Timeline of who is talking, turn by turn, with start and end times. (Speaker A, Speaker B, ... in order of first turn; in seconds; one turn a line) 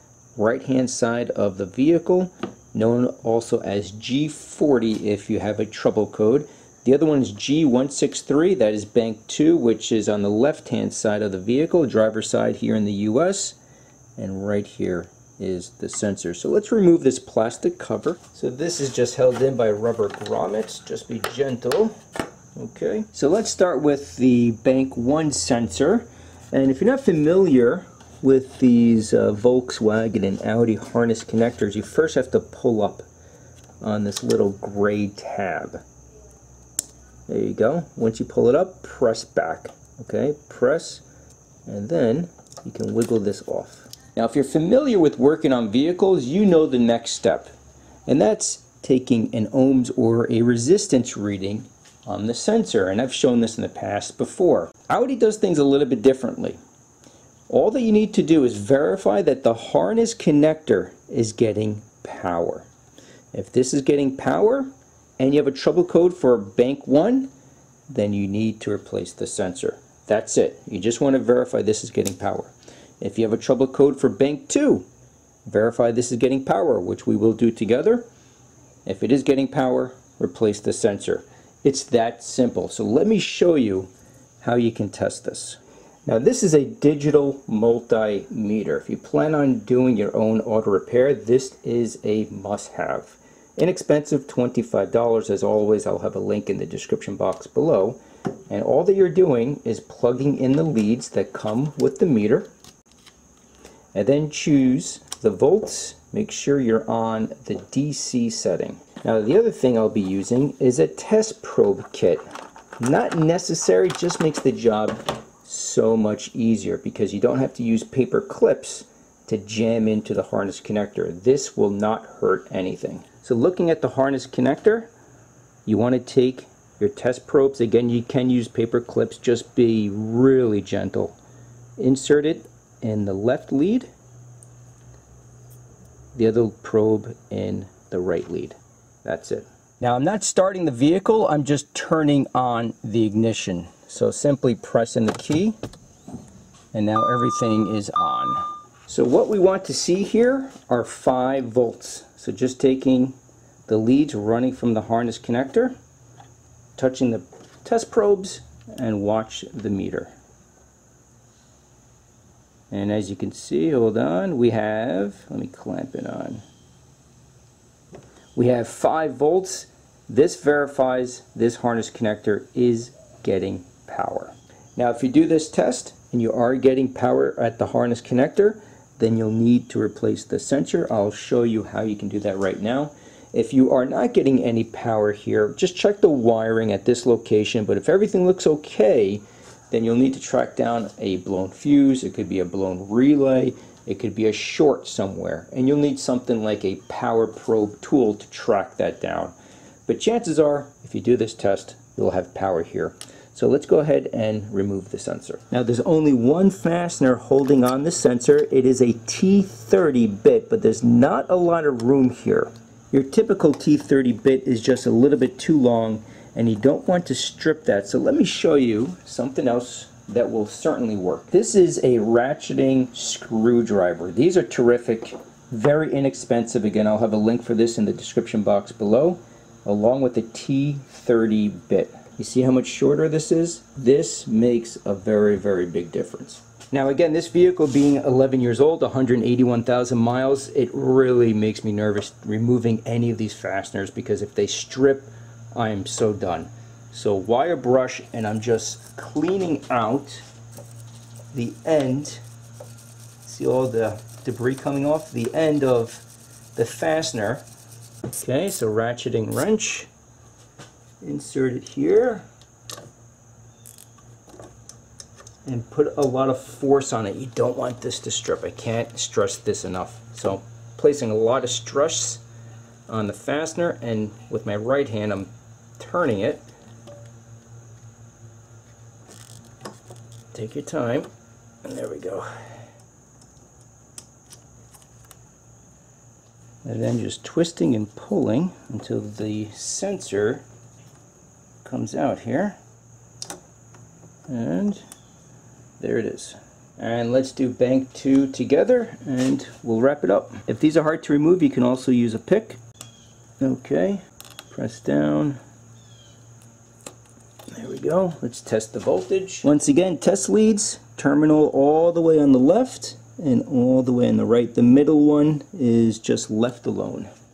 Speaker A: 0.3-13.6
Speaker A: 14.2-21.9
Speaker A: 22.5-33.0
Speaker A: 33.8-35.8
Speaker A: 37.3-41.0
Speaker A: 41.6-47.5
Speaker A: 48.1-56.6
Speaker A: 57.5-62.7
Speaker A: 63.3-67.3
Speaker A: 67.9-74.8
Speaker A: 75.4-78.0
Speaker A: 78.8-83.9
Speaker A: 84.4-102.5
Speaker A: 103.9-112.2
Speaker A: 112.8-124.9
Speaker A: 125.7-131.2
Speaker A: 131.8-133.9
Speaker A: 136.1-145.6
Speaker A: 146.7-153.2
Speaker A: 153.7-155.7
Speaker A: 156.8-160.1
Speaker A: 162.7-166.4
Speaker A: 168.3-199.3
Speaker A: 199.9-250.2
Speaker A: 251.3-252.2
Speaker A: 253.2-256.0
Speaker A: 256.6-257.4
Speaker A: 258.1-259.9
Speaker A: 261.0-262.2
Speaker A: 265.4-272.2
Speaker A: 272.9-276.4
Speaker A: 280.3-281.1
Speaker A: 281.6-282.3
Speaker A: 286.6-290.4
Speaker A: 291.6-292.6
Speaker A: 294.3-294.8
Speaker A: 295.8-302.6
Speaker A: 303.4-305.4
Speaker A: 307.5-317.1